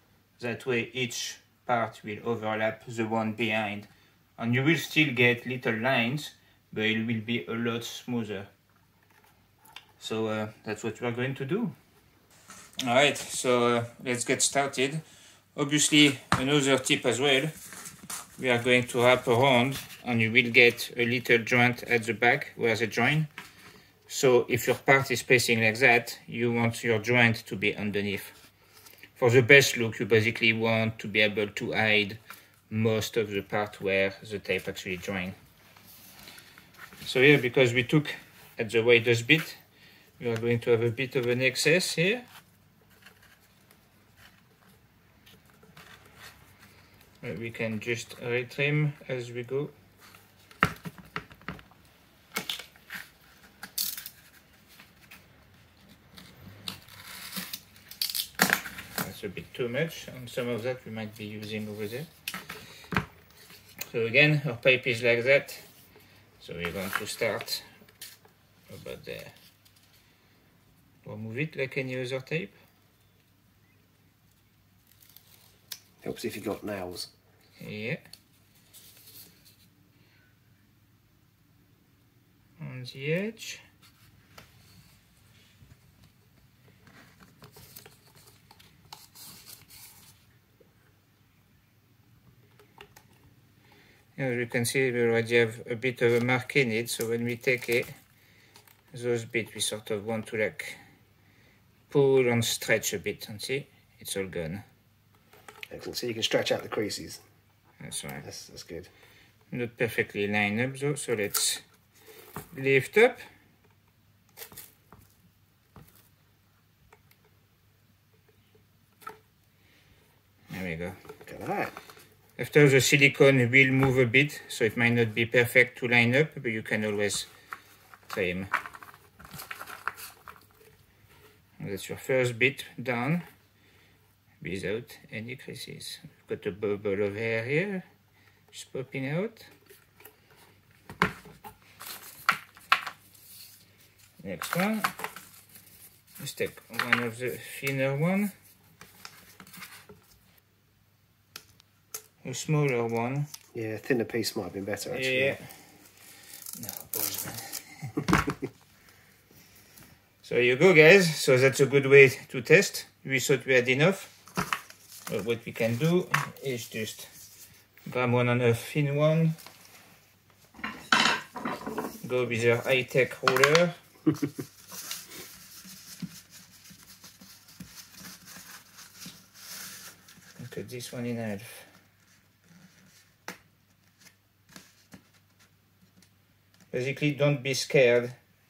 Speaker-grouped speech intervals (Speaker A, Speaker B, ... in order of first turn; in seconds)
Speaker A: 0.4-8.5, 10.0-11.7, 12.8-15.0, 15.6-17.5, 18.4-23.3, 24.1-28.4, 29.2-35.4, 37.0-39.6, 40.2-42.3, 47.2-49.7, 59.0-62.1, 63.9-65.7, 66.4-67.7, 68.7-69.3, 71.0-72.6, 77.6-78.0, 82.6-83.6, 94.2-98.0, 98.9-100.8, 101.9-104.6, 107.8-108.2, 109.5-111.6, 112.5-113.2, 120.5-121.0, 122.4-127.3, 128.1-128.5, 131.6-133.2, 134.4-137.8, 138.5-139.5, 144.2-144.9, 146.2-148.3, 152.2-153.3, 154.9-155.5, 156.6-158.1, 160.2-164.1, 165.1-167.1, 167.9-169.4, 172.0-173.7, 180.4-181.7, 186.7-188.1
Speaker B: 76.0-77.1, 105.7-107.2, 108.2-108.9, 121.3-121.8, 153.5-155.4